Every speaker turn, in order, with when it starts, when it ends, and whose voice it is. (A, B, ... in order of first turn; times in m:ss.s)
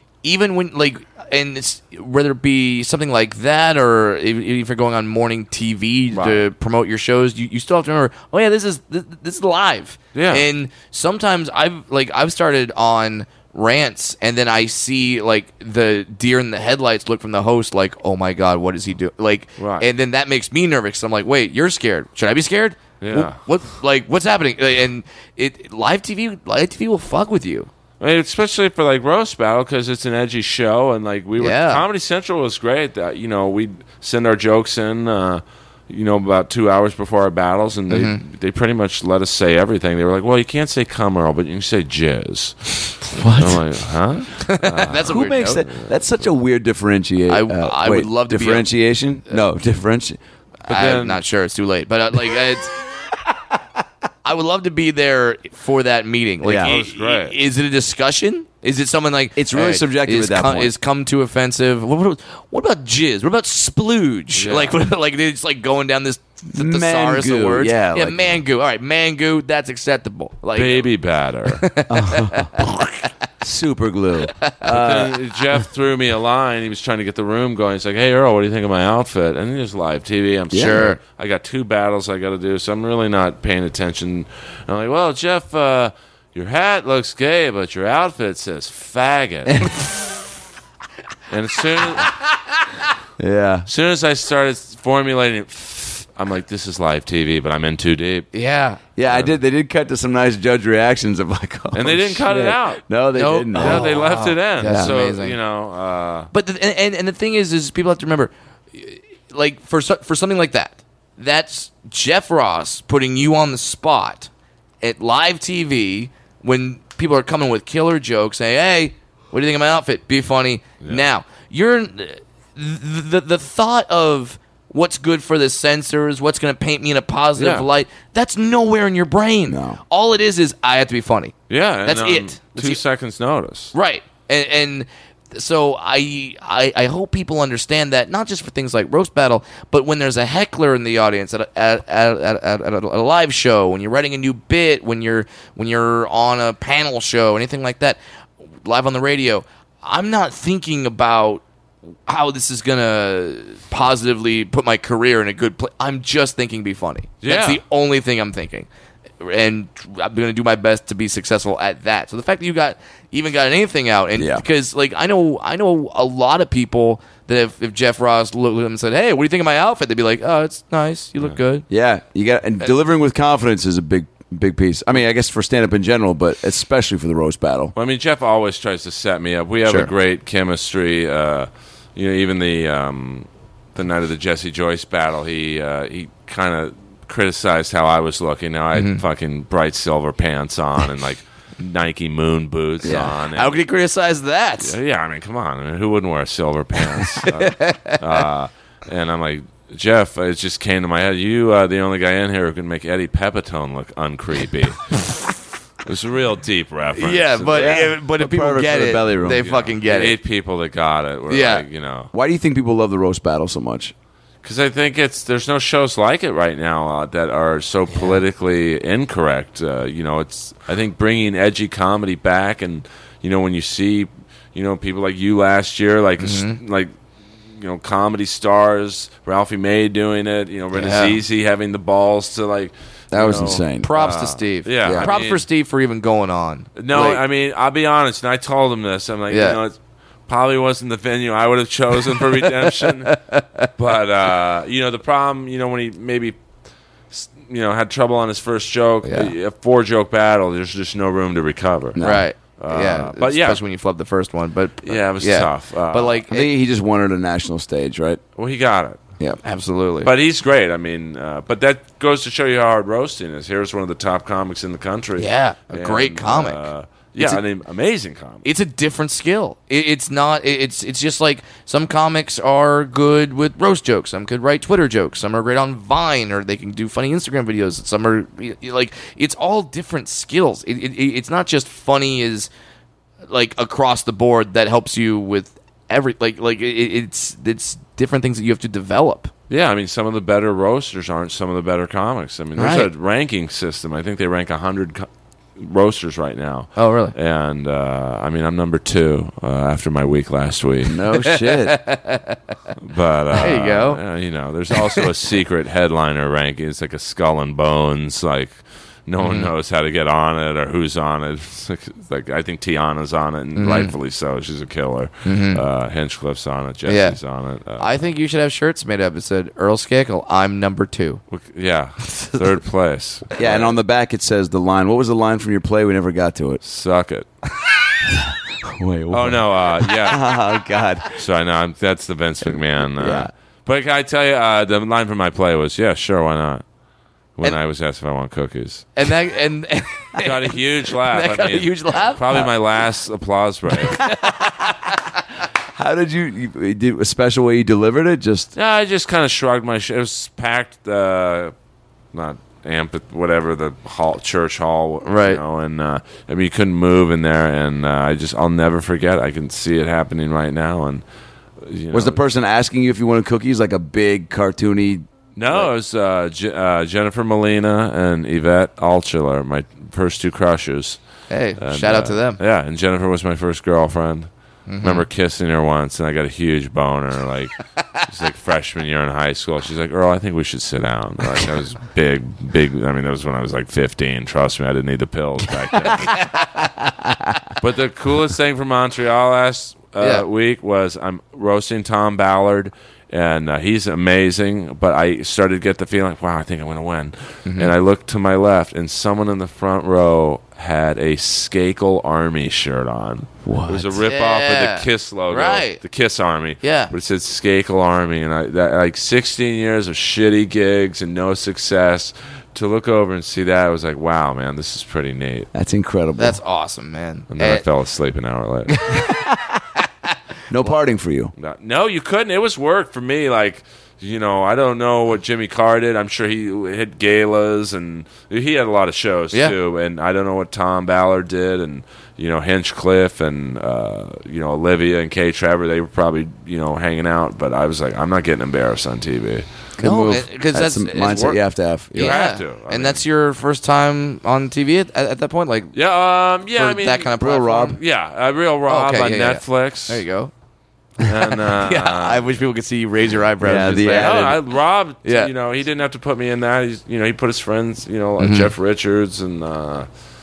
0:00.2-0:27.7 A
0:06.1-0:06.4 B
0:10.2-0:10.5 B
0:19.6-0:19.9 B
0:23.0-0:23.4 B
0:28.0-0:46.0 B
0:31.4-0:31.8 A
0:37.9-0:38.2 A
0:43.1-0:43.6 C
0:44.4-0:45.7 A
0:45.0-0:50.2 C
0:47.3-0:48.7 A
0:50.7-0:51.2 B
0:50.7-0:52.7 A
0:54.2-1:10.9 A
0:56.4-0:56.8 C
0:56.6-0:57.4 B
0:59.4-1:00.7 C
1:04.4-1:04.8 B
1:06.5-1:08.4 C
1:10.6-1:11.7 B
1:11.6-1:12.5 A
1:11.9-1:15.2 C
1:14.4-1:14.7 A
1:14.6-1:29.6 B
1:20.5-1:21.0 C
1:20.5-1:21.0 A
1:31.3-1:32.2 B
1:33.2-1:33.7 C
1:33.7-1:38.3 B
1:38.3-1:38.8 A
1:39.0-1:43.9 C
1:39.1-1:39.4 B
1:41.7-1:42.9 B
1:43.2-1:45.4 A
1:43.5-1:46.3 B
1:44.6-1:45.0 C
1:46.3-1:54.3 A
1:54.8-2:11.4 A
2:07.4-2:07.7 B
2:09.5-2:09.8 C
2:11.5-2:13.8 B
2:11.9-2:12.8 A
2:13.7-2:28.0 A
2:28.6-2:31.4 A
2:32.1-2:38.7 A
2:37.2-2:37.6 B
2:39.2-2:51.7 A
2:44.2-2:44.4 C
2:51.7-2:57.7 C
2:57.8-3:13.6 B
2:59.6-2:59.9 A
3:08.7-3:09.0 A
3:12.8-3:13.1 C
3:12.9-3:14.8 A
3:14.6-3:25.2 B
3:17.0-3:18.2 A
3:25.8-3:27.9 B
3:27.0-3:30.2 A
3:27.5-3:29.6 C
3:29.3-3:32.1 B
3:31.3-3:31.6 A
3:32.1-3:33.9 C
3:34.4-3:46.9 B
3:46.2-3:46.6 A
3:47.5-3:55.4 B
3:50.7-3:51.2 A
3:53.1-3:53.9 C
3:53.8-3:57.2 A
3:54.8-3:55.1 C
3:56.8-3:59.8 B
3:59.3-3:59.6 A
4:00.3-4:03.1 B
4:02.1-4:03.7 A
4:03.8-4:06.4 B
4:07.1-4:13.6 B
4:09.0-4:09.3 A
4:12.0-4:12.2 C
4:12.0-4:16.5 A
4:14.8-4:16.2 B
4:16.3-4:18.2 C
4:18.4-4:19.0 B
4:19.4-4:20.1 A
4:20.0-4:28.5 B
4:25.2-4:26.7 A
4:28.4-4:42.5 A
4:43.3-4:49.3 A
4:49.5-5:01.0 B
4:52.6-4:52.8 A
4:56.8-4:57.1 A
5:00.9-5:01.8 C
5:01.2-5:02.4 A
5:02.8-5:18.0 B
5:03.3-5:04.0 A
5:04.8-5:05.0 A
5:09.2-5:09.5 A
5:13.6-5:13.9 A
5:15.2-5:15.6 A
5:16.9-5:17.2 A
5:17.8-5:21.2 A
5:21.3-5:23.8 B
5:23.4-5:26.6 C
5:26.6-5:27.3 B
5:28.1-5:31.1 C
5:29.1-5:30.3 B
5:31.1-5:36.6 B
5:32.4-5:33.3 C
5:37.4-5:39.0 B
5:39.0-5:42.5 A
5:40.2-5:44.1 B
5:43.9-5:45.1 A
5:44.1-5:44.7 C
5:45.7-5:48.5 C
5:48.6-5:51.5 B
5:52.1-6:01.0 B
5:55.0-5:55.4 A
6:01.6-6:02.2 B
6:01.9-6:05.7 C
6:05.4-6:11.0 B
6:11.3-6:12.4 A
6:11.6-6:14.3 B
6:14.7-6:15.1 A
6:14.8-6:26.3 B
6:26.0-6:26.5 A
6:27.6-6:55.5 B
6:37.5-6:37.7 A
6:43.5-6:45.8 A
6:43.5-6:43.8 C
6:46.6-6:46.9 A
6:55.5-6:56.4 C
6:56.2-6:57.6 A
6:57.3-6:58.9 B
6:58.7-6:59.3 A
7:00.5-7:01.3 C
7:01.4-7:19.5 B
7:19.8-7:21.4 A
7:19.8-7:22.2 C
7:21.1-7:21.4 B
7:21.9-7:23.0 B
7:22.0-7:25.7 A
7:25.7-7:27.1 B
7:26.6-7:27.8 A
7:27.2-7:27.8 C
7:27.7-7:30.0 B
7:28.7-7:30.3 A
7:31.0-7:32.3 B
7:31.3-7:34.4 A
7:33.4-7:34.4 C
7:33.8-7:39.9 B
7:35.0-7:35.3 A
7:38.2-7:38.5 A